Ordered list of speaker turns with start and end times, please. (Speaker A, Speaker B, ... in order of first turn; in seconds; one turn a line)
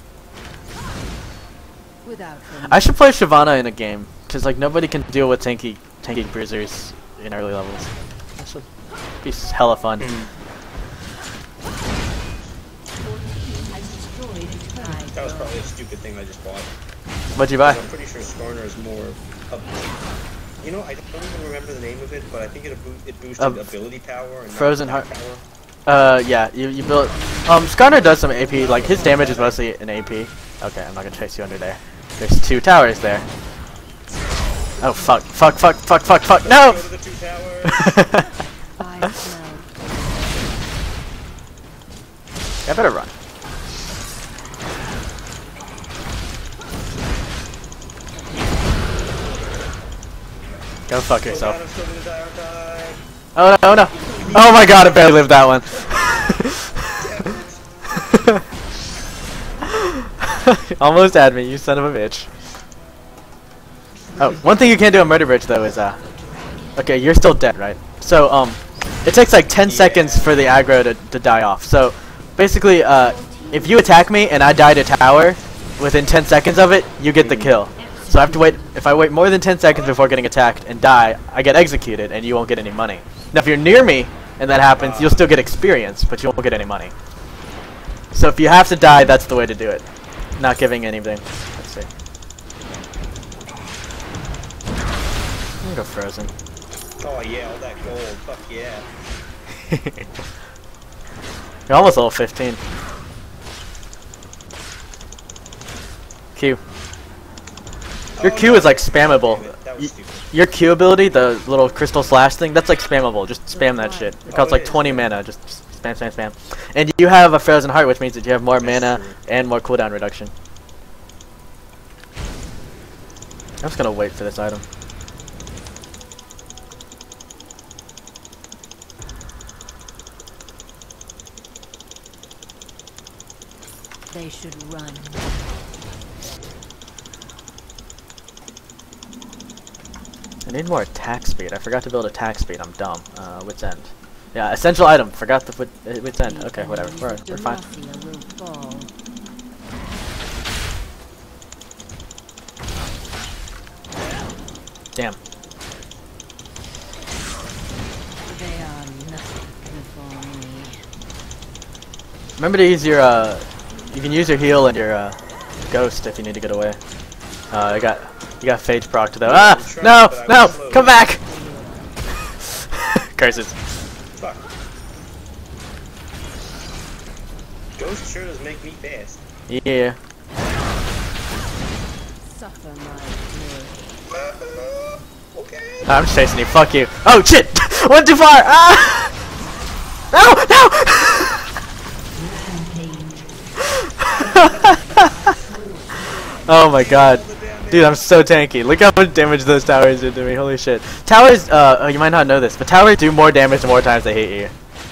Speaker A: 2.0-3.0
Speaker B: 2.7-8.7
Speaker B: 9.2-10.2
Speaker C: 10.0-10.3
Speaker D: 12.9-15.1
Speaker A: 14.8-15.7
Speaker C: 15.1-16.7
Speaker B: 17.4-17.8
Speaker C: 17.6-19.8
Speaker C: 20.6-25.4
Speaker B: 23.4-23.7
Speaker B: 24.5-25.1
Speaker B: 25.9-33.3
Speaker A: 26.8-29.4
Speaker C: 28.6-29.6
Speaker B: 34.8-36.8
Speaker C: 36.4-38.0
Speaker B: 37.7-38.3
Speaker A: 38.8-40.7
Speaker B: 42.7-43.1
Speaker A: 48.1-49.1
Speaker B: 50.9-51.6
Speaker C: 51.2-53.0
Speaker B: 53.4-57.0
Speaker D: 53.7-54.9
Speaker C: 54.2-55.8
Speaker C: 57.0-57.6
Speaker B: 58.0-58.4
Speaker B: 59.6-62.3
Speaker B: 64.2-66.0
Speaker B: 66.8-86.9
Speaker C: 69.6-70.5
Speaker D: 73.0-74.7
Speaker C: 77.2-77.5
Speaker D: 77.8-78.8
Speaker A: 78.2-78.5
Speaker C: 79.7-80.1
Speaker C: 84.7-85.4
Speaker B: 88.1-89.8
Speaker B: 90.4-91.9
Speaker B: 95.6-96.3
Speaker C: 97.0-98.9
Speaker B: 99.7-100.1
Speaker B: 101.7-102.6
Speaker B: 106.3-106.6
Speaker C: 108.2-110.3
Speaker B: 108.2-120.3
Speaker A: 113.5-114.7
Speaker C: 114.3-115.1
Speaker C: 118.6-119.2
Speaker B: 123.6-124.6
Speaker A: 134.1-135.8
Speaker B: 140.4-147.6
Speaker A: 146.2-148.9
Speaker A: 158.2-160.8
Speaker B: 162.4-165.2
Speaker B: 165.7-166.8
Speaker B: 167.5-171.2
Speaker C: 169.2-171.0
Speaker A: 171.2-172.0
Speaker B: 172.8-173.6
Speaker C: 174.2-174.5
Speaker C: 177.8-179.2
Speaker B: 179.5-180.0
Speaker A: 182.2-184.1
Speaker C: 184.1-186.0
Speaker B: 185.9-189.2
Speaker B: 190.1-191.5
Speaker A: 192.1-193.5
Speaker B: 194.0-195.1
Speaker D: 194.3-196.3
Speaker A: 194.3-196.2
Speaker B: 196.4-204.5
Speaker C: 196.5-198.1